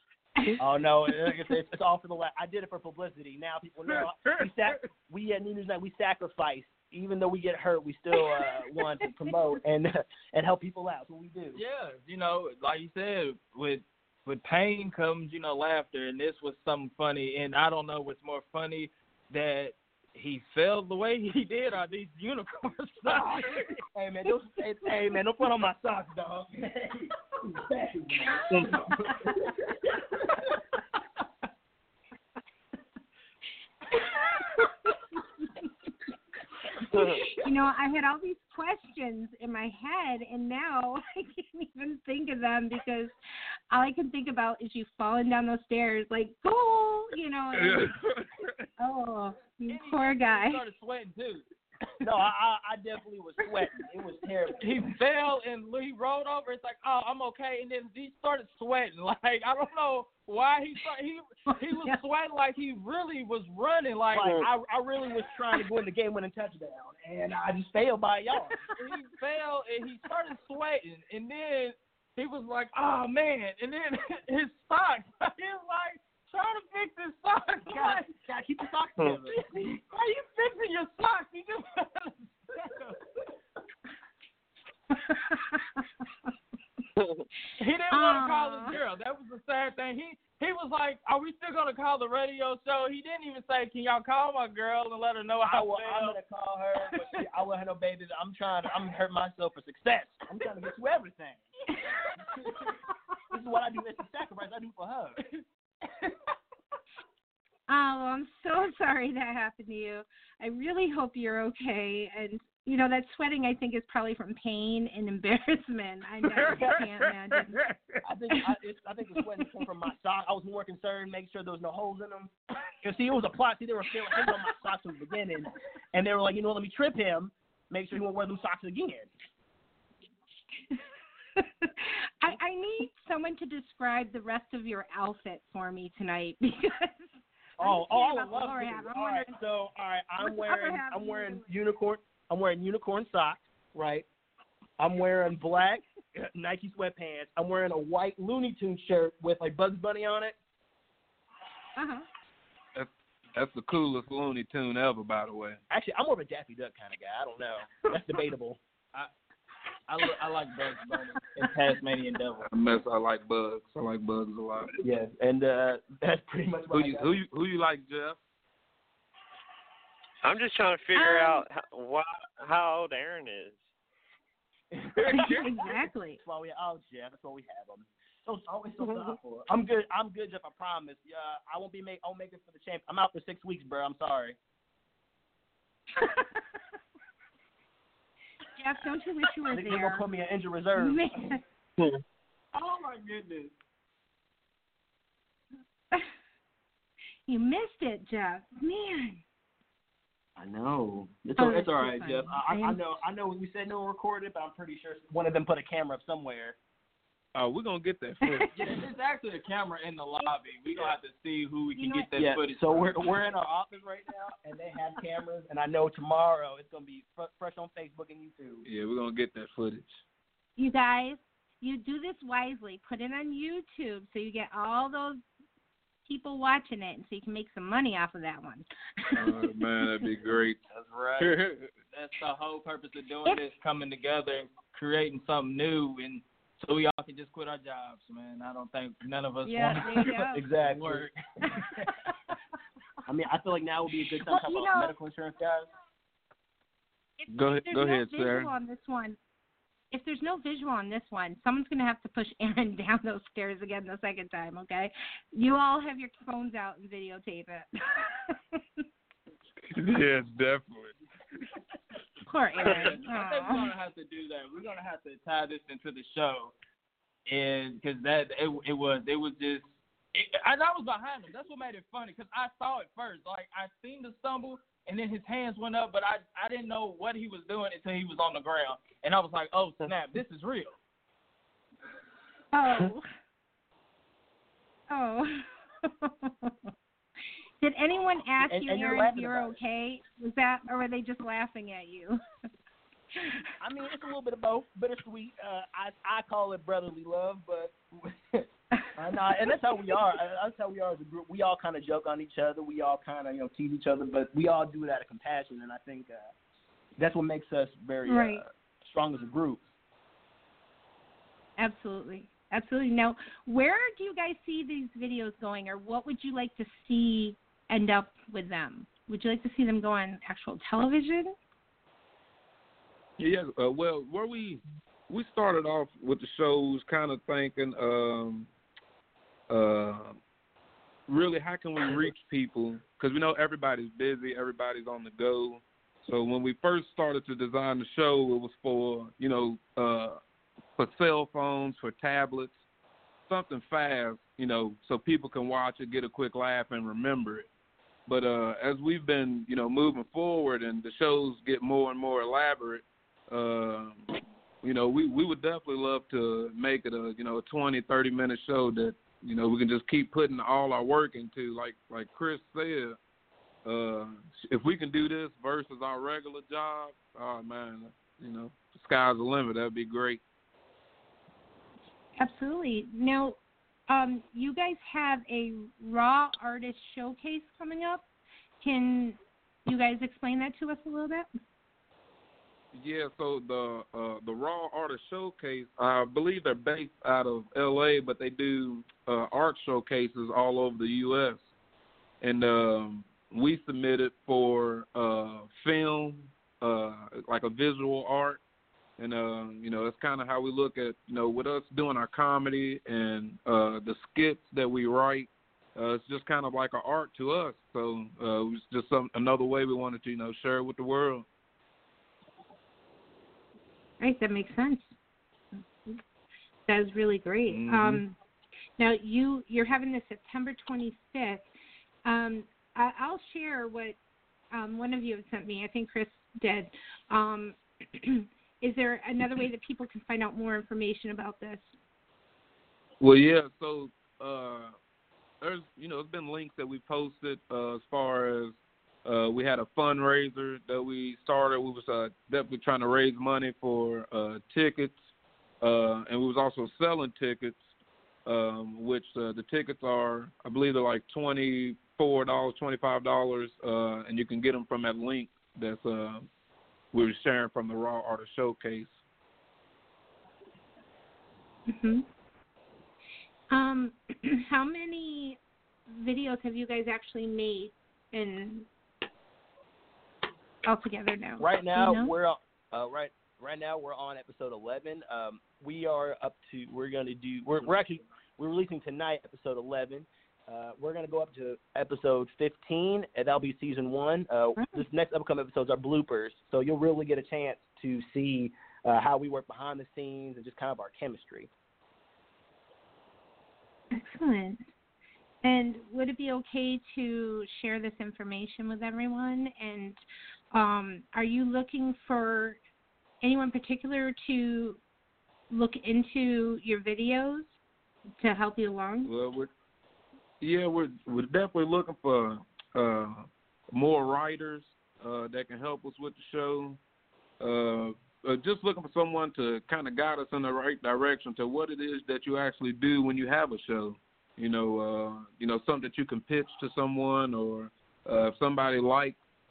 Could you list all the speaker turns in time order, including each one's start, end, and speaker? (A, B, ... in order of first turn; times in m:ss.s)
0:00.6-0:11.6 A
0:11.5-0:23.7 B
0:23.1-0:28.7 A
0:28.5-0:28.9 C
0:33.9-0:35.7 D
0:36.9-0:43.1 D
0:43.7-0:47.9 D
0:47.5-0:48.7 C
0:48.8-0:50.6 D
0:49.7-0:51.4 B
0:52.0-0:54.7 A
0:54.6-1:04.3 B
1:01.5-1:02.0 D
1:04.1-1:08.6 A
1:08.8-1:18.1 B
1:17.7-1:19.4 A
1:19.3-1:23.0 B
1:24.9-1:25.9 D
1:27.6-1:36.2 B
1:27.9-1:28.8 D
1:35.4-1:41.4 A
1:42.2-1:42.7 A
1:43.3-1:45.2 A
1:47.7-1:57.6 D
1:56.2-1:58.0 C
1:58.0-2:02.3 A
2:02.8-2:09.1 A
2:11.4-2:17.1 D
2:17.6-2:24.1 A
2:17.6-2:19.4 D
2:20.2-2:21.5 D
2:24.8-2:30.4 A
2:31.8-2:32.0 D
2:32.7-2:35.6 C
2:35.7-2:39.1 A
2:39.9-2:42.5 B
2:42.4-2:44.8 C
2:44.8-2:47.2 A
2:46.7-2:48.2 C
2:50.2-2:53.6 E
2:50.9-2:51.4 D
2:54.7-3:04.4 A
2:55.1-2:56.2 D
3:06.0-3:06.4 D
3:08.6-3:10.0 D
3:09.5-3:11.3 A
3:10.8-3:11.4 D
3:12.5-3:13.5 B
3:17.3-3:19.2 D
3:20.4-3:26.6 A
3:21.4-3:22.8 D
3:27.3-3:28.5 C
3:28.2-3:28.8 D
3:28.5-3:32.9 B
3:31.8-3:32.1 D
3:32.2-3:38.6 A
3:38.6-3:39.9 C
3:40.6-3:45.2 D
3:46.0-3:49.5 D
3:49.2-3:50.6 C
3:50.7-4:01.1 B
3:51.2-3:51.7 C
3:59.4-4:00.4 D
3:59.6-4:01.1 A
4:01.6-4:01.9 A
4:02.0-4:02.3 D
4:03.0-4:05.7 A
4:04.2-4:04.9 D
4:07.2-4:09.2 D
4:07.3-4:08.5 C
4:09.9-4:18.6 D
4:19.7-4:20.9 C
4:22.2-4:23.7 D
4:22.6-4:22.9 C
4:22.6-4:26.5 B
4:27.3-4:40.8 B
4:42.5-4:43.0 D
4:44.9-4:46.5 D
4:47.6-4:52.2 D
4:48.4-4:49.6 A
4:53.6-5:06.3 A
5:07.0-5:09.6 A
5:08.1-5:08.4 D
5:11.6-5:21.3 D
5:23.2-5:28.5 C
5:29.5-5:30.2 C
5:31.1-5:40.2 C
5:40.8-5:42.6 C
5:43.3-5:47.5 C
5:48.0-5:54.1 C
5:54.6-6:03.0 C
6:03.6-6:10.2 C
6:12.2-6:13.4 D
6:13.9-6:18.0 D
6:18.6-6:21.3 D
6:22.7-6:31.4 C
6:32.2-6:38.4 C
6:39.0-6:51.2 C
6:54.0-6:54.8 D
6:56.7-6:58.1 D
6:57.5-6:58.0 C
6:58.8-7:01.4 D
7:02.0-7:04.0 D
7:04.5-7:11.7 D
7:13.0-7:14.7 C
7:15.4-7:25.0 C
7:25.6-7:27.6 C
7:28.2-7:36.2 C
7:36.9-7:38.9 C
7:41.7-7:42.0 D
7:43.5-7:48.7 D
7:50.6-7:52.1 D
7:51.4-8:11.5 A
8:13.9-8:14.6 D
8:15.4-8:20.0 D
8:20.5-8:22.6 D
8:23.2-8:24.8 D
8:25.5-8:27.5 D
8:28.2-8:29.1 D
8:29.0-8:29.5 C
8:30.4-8:36.8 C
8:37.4-8:49.2 C